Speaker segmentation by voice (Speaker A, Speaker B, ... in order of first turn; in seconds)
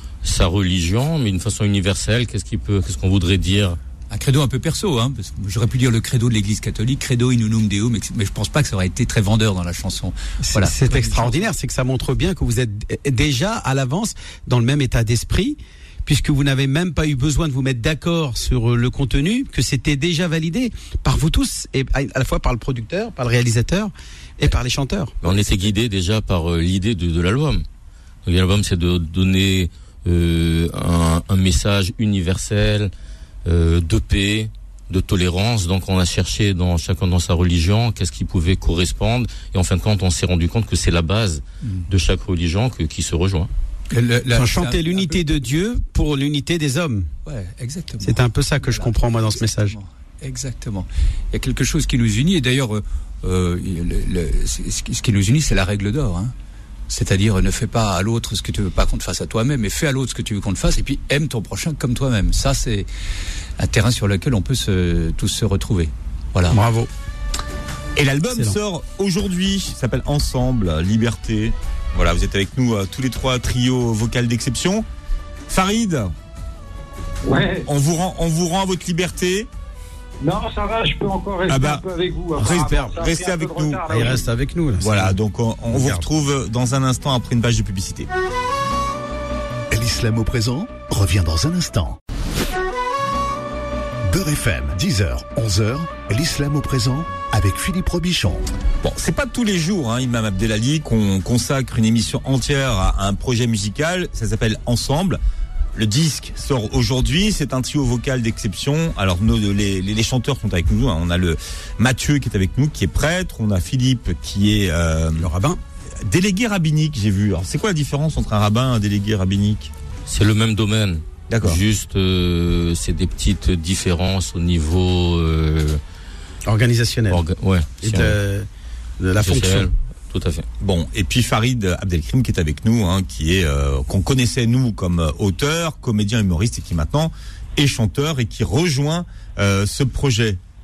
Speaker A: 0.2-3.8, 25.2-27.6, 28.2-32.9, 33.4-43.5, 120.1-125.8, 127.1-128.2, 129.2-130.4
Speaker B: 4.1-11.4, 43.9-45.2, 47.2-56.3, 56.9-62.9, 63.6-66.6
Speaker C: 10.5-25.1, 44.3-47.1, 48.0-49.8, 66.5-66.9, 68.3-68.6, 82.4-83.0, 83.9-85.2, 85.7-86.0, 115.2-115.6, 126.5-127.2, 127.8-128.5, 129.0-129.7
Speaker D: 68.0-74.8, 75.5-76.1, 77.7-79.5, 81.5-81.8, 82.4-83.8, 84.8-88.1, 98.8-105.2, 105.7-115.3, 116.0-119.7, 121.3-121.6, 130.6-140.4
Speaker E: 77.2-77.7, 80.2-84.2
Speaker F: 89.7-92.0, 94.1-98.5